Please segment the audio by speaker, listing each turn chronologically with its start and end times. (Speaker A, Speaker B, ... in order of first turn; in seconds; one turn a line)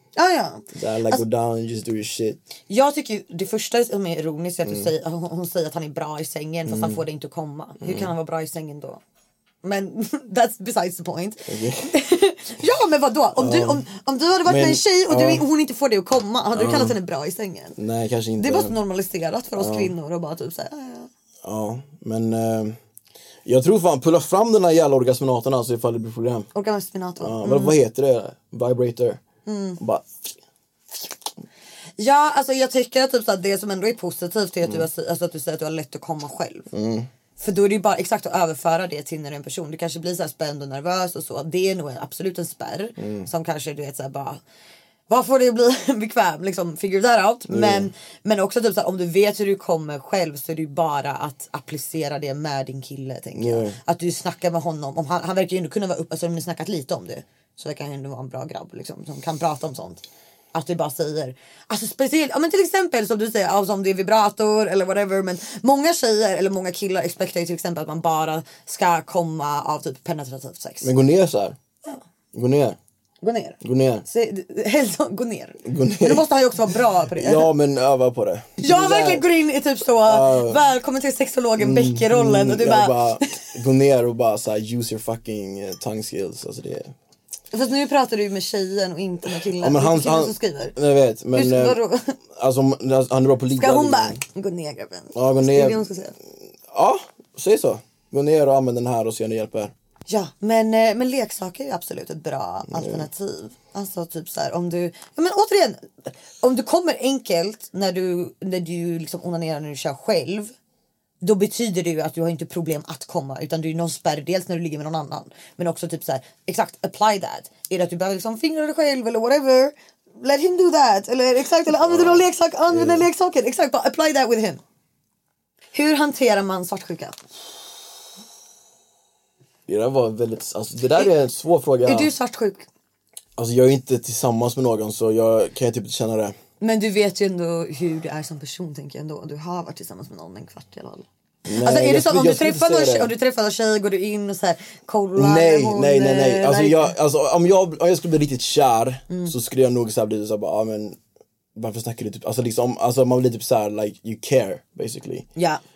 Speaker A: 0.2-1.2
Speaker B: 0.7-2.4
Speaker A: 2.7-9.0
Speaker B: 6.7-7.0
Speaker B: 7.8-8.1
Speaker A: 9.6-17.8
Speaker B: 11.5-11.9
Speaker B: 13.4-13.8
Speaker B: 14.4-15.4
Speaker B: 16.5-17.0
Speaker B: 17.8-18.8
Speaker A: 18.4-21.1
Speaker B: 19.6-19.9
Speaker B: 21.4-22.8
Speaker B: 23.4-26.5
Speaker A: 26.5-27.8
Speaker B: 27.2-29.2
Speaker A: 29.5-29.8
Speaker B: 29.8-30.1
Speaker A: 32.0-36.7
Speaker B: 36.7-37.1
Speaker A: 37.4-44.4
Speaker B: 43.0-43.3
Speaker A: 45.1-60.0
Speaker B: 47.5-47.9
Speaker B: 53.4-53.8
Speaker A: 60.5-70.9
Speaker B: 70.8-71.6
Speaker B: 72.3-72.8
Speaker A: 73.2-77.5
Speaker B: 73.6-74.1
Speaker B: 75.7-76.2
Speaker B: 77.2-79.3
Speaker A: 78.6-83.4
Speaker B: 80.0-80.6
Speaker B: 81.6-86.9
Speaker A: 87.5-90.8
Speaker B: 89.5-91.8
Speaker A: 91.3-92.2
Speaker B: 92.3-94.2
Speaker A: 93.6-96.1
Speaker B: 95.1-95.8
Speaker B: 96.7-99.7
Speaker A: 100.1-110.5
Speaker B: 102.7-103.1
Speaker A: 111.2-124.6
Speaker B: 121.9-123.1
Speaker A: 125.7-127.2
Speaker B: 129.7-132.1
Speaker A: 131.9-132.7
Speaker B: 133.4-136.4
Speaker A: 136.6-141.1
Speaker B: 141.5-143.1
Speaker A: 141.6-146.9
Speaker B: 145.2-151.0
Speaker B: 151.6-155.3